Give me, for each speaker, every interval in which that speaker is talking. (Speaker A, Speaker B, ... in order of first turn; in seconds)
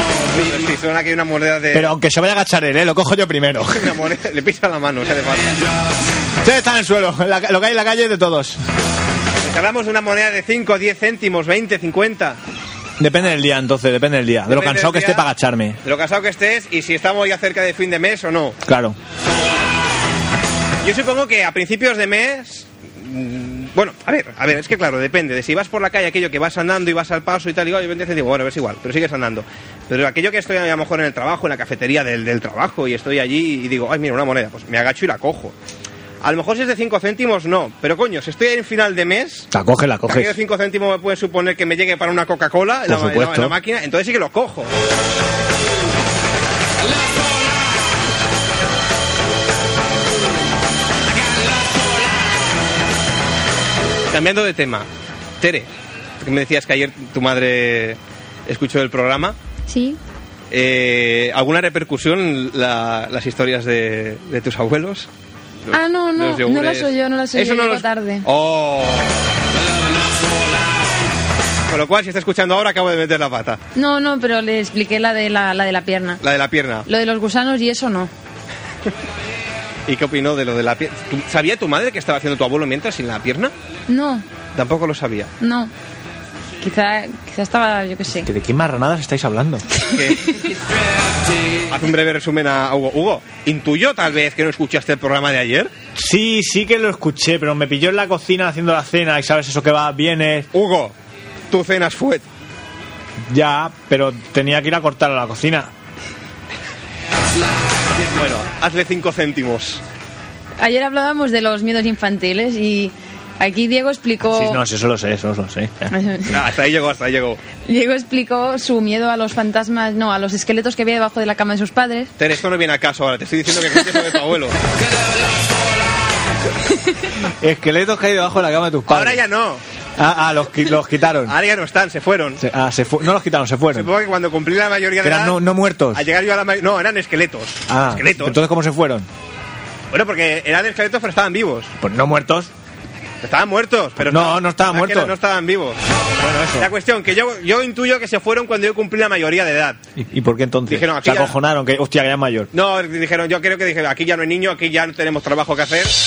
Speaker A: 0.3-1.9, 3.7-5.5, 9.4-12.4, 14.5-15.2, 15.8-18.6, 20.8-35.5, 36.2-39.5, 40.0-44.7, 54.1-54.9, 55.4-55.7, 56.2-59.4, 60.5-65.1, 65.6-69.1, 71.7-73.6, 76.2-76.9, 79.9-83.5, 84.5-85.3, 89.9-90.4, 91.7-95.7, 100.5-100.9, 101.5-102.2, 108.1-109.8, 116.3-117.4, 122.2-124.6, 128.9-129.6, 131.2-132.4, 133.7-135.4, 135.9-138.3, 139.9-141.7, 143.2-145.8, 146.6-149.8, 150.7-151.3, 152.5-155.9
Speaker B: 1.7-4.0, 6.4-8.6, 13.0-15.8, 18.6-19.0, 39.5-40.4, 42.9-43.5, 88.2-89.7, 96.0-100.5, 103.3-105.7, 114.2-115.9, 127.4-129.2, 130.0-131.3, 132.4-133.9, 135.0-136.0, 137.7-139.1, 141.8-142.5, 144.0-145.1, 146.2-146.7, 150.0-152.5
Speaker C: 59.7-60.0, 65.7-68.2, 73.7-76.2, 76.9-78.1, 83.9-84.2, 85.4-85.7, 86.6-88.3, 110.6-114.6, 115.9-116.3, 117.7-122.1